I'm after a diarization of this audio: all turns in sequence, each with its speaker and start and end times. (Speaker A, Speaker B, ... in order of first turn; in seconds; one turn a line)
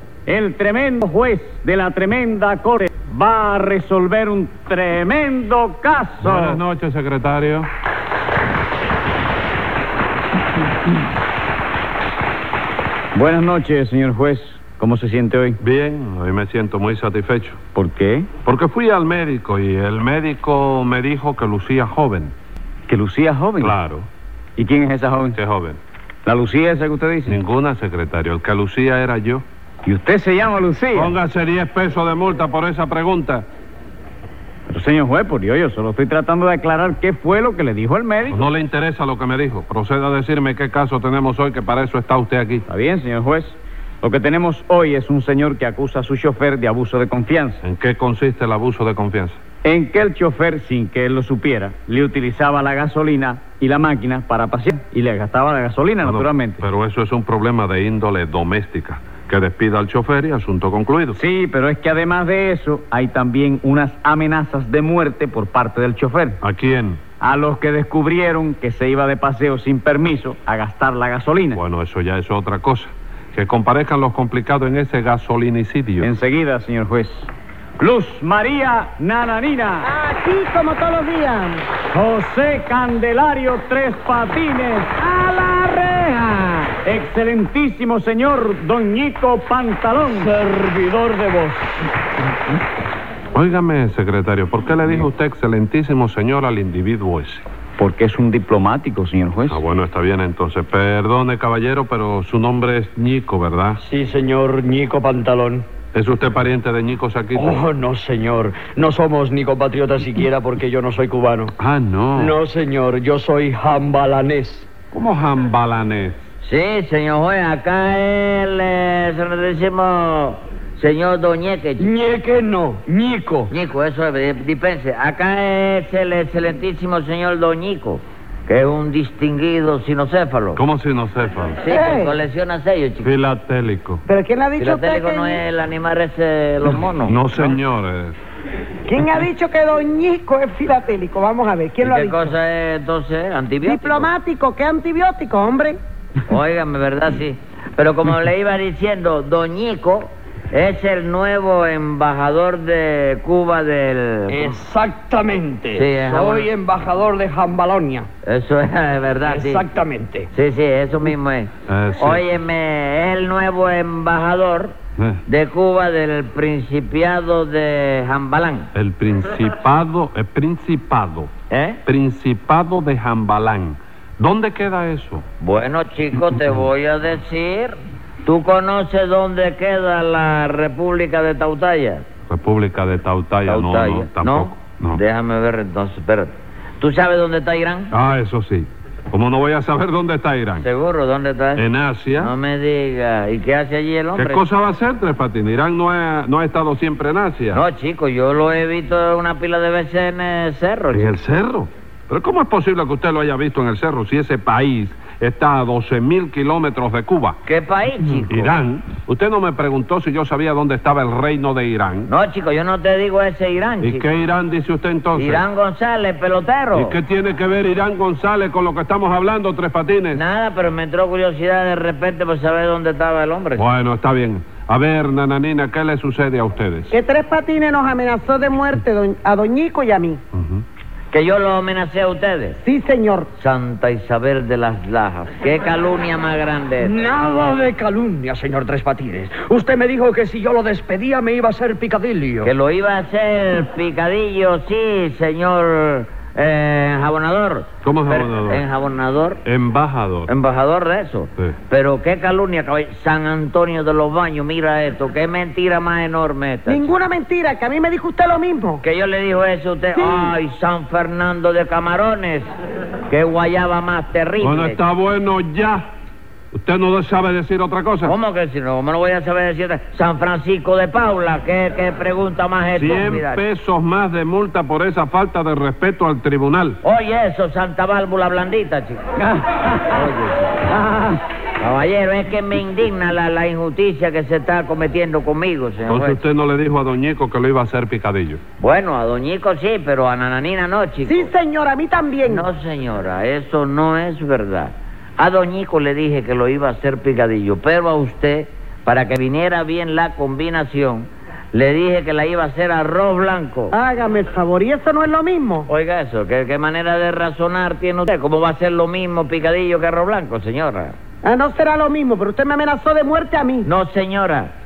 Speaker A: 0.3-6.5
Speaker B: 6.2-7.7
Speaker A: 13.1-15.6
Speaker B: 15.6-17.6
Speaker A: 17.7-18.3
Speaker B: 18.4-22.3
Speaker A: 22.9-23.7
Speaker B: 23.6-24.1
Speaker A: 24.6-25.4
Speaker B: 25.3-25.8
Speaker A: 26.2-27.3
Speaker B: 27.2-29.4
Speaker A: 29.9-31.1
Speaker B: 30.9-33.4
Speaker A: 34.7-38.4
Speaker B: 38.3-42.6
Speaker A: 42.7-47.6
Speaker B: 47.6-49.4
Speaker A: 49.7-56.6
Speaker B: 56.0-61.2
Speaker A: 61.2-66.4
Speaker B: 66.4-67.0
Speaker A: 67.2-71.6
Speaker B: 71.5-76.1
Speaker A: 76.0-77.3
Speaker A: 77.8-79.9
Speaker C: 79.8-81.6
Speaker A: 81.9-85.0
Speaker A: 86.7-91.6
Speaker B: 93.3-97.4
Speaker A: 97.8-99.6
Speaker B: 99.5-103.8
Speaker D: 103.8-105.7
Speaker B: 105.9-107.6
Speaker D: 107.3-111.5
Speaker B: 111.6-112.3
Speaker D: 112.2-114.7
Speaker B: 114.9-116.2
Speaker E: 116.4-121.9
Speaker D: 121.8-123.5
Speaker E: 123.5-130.6
Speaker B: 130.5-131.6
Speaker E: 131.6-133.1
Speaker C: 131.7-132.1
Speaker B: 133.0-134.0
Speaker C: 134.1-135.4
Speaker E: 134.6-137.2
Speaker B: 137.1-138.2
Speaker C: 138.9-142.3
Speaker E: 141.8-144.1
Speaker C: 143.6-145.8
Speaker E: 146.2-154.6
Speaker D: 154.3-158.1
Speaker E: 155.7-156.5
Speaker E: 158.2-159.6
Speaker D: 159.2-160.3
Speaker E: 160.3-164.7
Speaker B: 161.7-162.3
Speaker E: 165.3-168.7
Speaker B: 168.7-171.3
Speaker E: 171.5-171.8
Speaker B: 171.8-175.2
Speaker E: 175.4-182.1
Speaker B: 182.3-185.0
Speaker E: 183.4-187.9
Speaker B: 187.9-190.7
Speaker E: 190.6-191.6
Speaker B: 191.6-192.3
Speaker E: 192.2-194.4
Speaker B: 194.1-197.6
Speaker E: 197.5-201.1
Speaker B: 200.9-207.4
Speaker E: 207.4-208.5
Speaker B: 208.3-212.1
Speaker E: 212.1-214.1
Speaker B: 213.8-215.4
Speaker E: 215.2-216.9
Speaker B: 216.7-220.2
Speaker E: 220.1-223.7
Speaker B: 223.6-226.9
Speaker C: 226.9-230.2
Speaker B: 230.3-230.6
Speaker E: 231.1-232.6
Speaker C: 232.6-233.3
Speaker E: 233.3-236.9
Speaker D: 236.8-242.5
Speaker E: 242.4-249.4
Speaker B: 247.8-248.6
Speaker B: 249.4-250.3
Speaker E: 250.3-256.9
Speaker C: 256.7-258.8
Speaker E: 258.8-262.5
Speaker C: 259.9-260.3
Speaker E: 263.1-264.8
Speaker B: 264.4-265.9
Speaker B: 266.5-268.1
Speaker E: 268.0-273.4
Speaker B: 272.7-276.8
Speaker E: 276.8-279.0
Speaker A: 279.3-280.0
Speaker E: 279.7-280.9
Speaker A: 280.8-281.2
Speaker E: 281.6-286.2
Speaker B: 285.8-288.4
Speaker E: 288.6-291.3
Speaker C: 291.0-292.4
Speaker E: 292.2-303.7
Speaker C: 303.7-305.7
Speaker E: 305.7-310.9
Speaker C: 311.2-313.7
Speaker E: 313.6-314.5